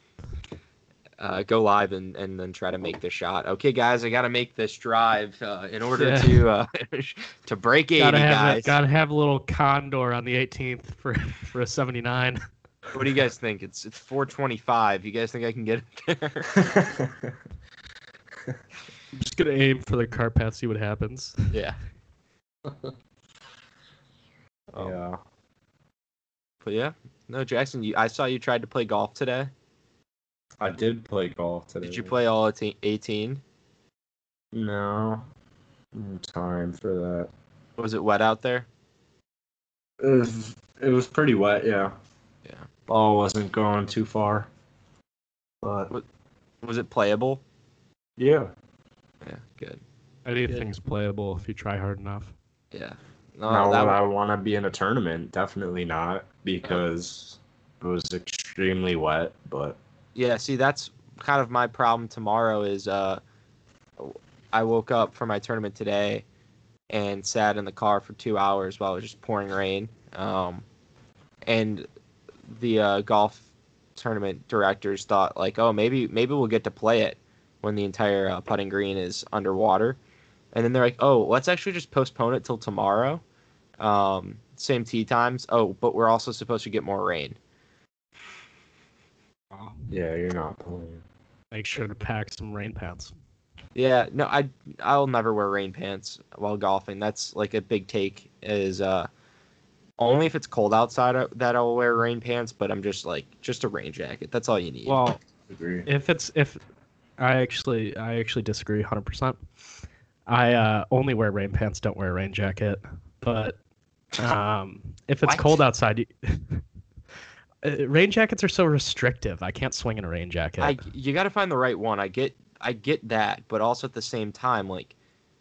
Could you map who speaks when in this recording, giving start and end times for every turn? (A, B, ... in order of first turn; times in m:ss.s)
0:01.2-0:08.8 A
0:06.0-0:06.4 B
0:08.0-0:12.4 B
0:12.9-0:16.6 A
0:16.6-0:17.3 C
0:19.1-0:21.5 B
0:21.5-0:21.8 A
0:22.6-0:22.9 C
0:24.7-0:25.0 A
0:24.8-0:25.2 C
0:26.6-0:29.5 A
0:30.6-0:32.2 C
0:31.8-0:33.4 A
0:34.5-0:35.2 C
0:35.9-0:37.3 C
0:37.8-0:38.7 A
0:40.0-0:41.9 C
0:42.9-0:44.5 C
0:45.6-0:45.9 C
0:46.6-0:47.4 A
0:48.2-0:48.5 C
0:49.2-0:49.8 A
0:50.2-0:52.3 B
0:52.7-0:54.0 A
0:53.5-0:59.8 C
1:00.1-1:03.2 A
1:04.0-1:06.2 A
1:06.9-1:10.6 A
1:11.5-1:11.8 A
1:12.5-1:13.4 A
1:14.0-1:20.0 A
1:20.5-1:23.2 A
1:23.8-1:27.4 A
1:29.5-1:29.9 B
1:29.9-1:31.0 C
1:31.5-1:33.1 B
1:33.7-1:39.1 A
1:40.0-1:45.0 A
1:44.8-1:45.2 B
1:45.5-1:45.9 C
1:45.8-1:46.6 B
1:47.2-1:49.4 B
1:50.3-1:53.6 B
1:54.2-1:56.6 B
1:55.2-1:55.6 A
1:57.6-2:00.8 B
2:00.6-2:04.9 A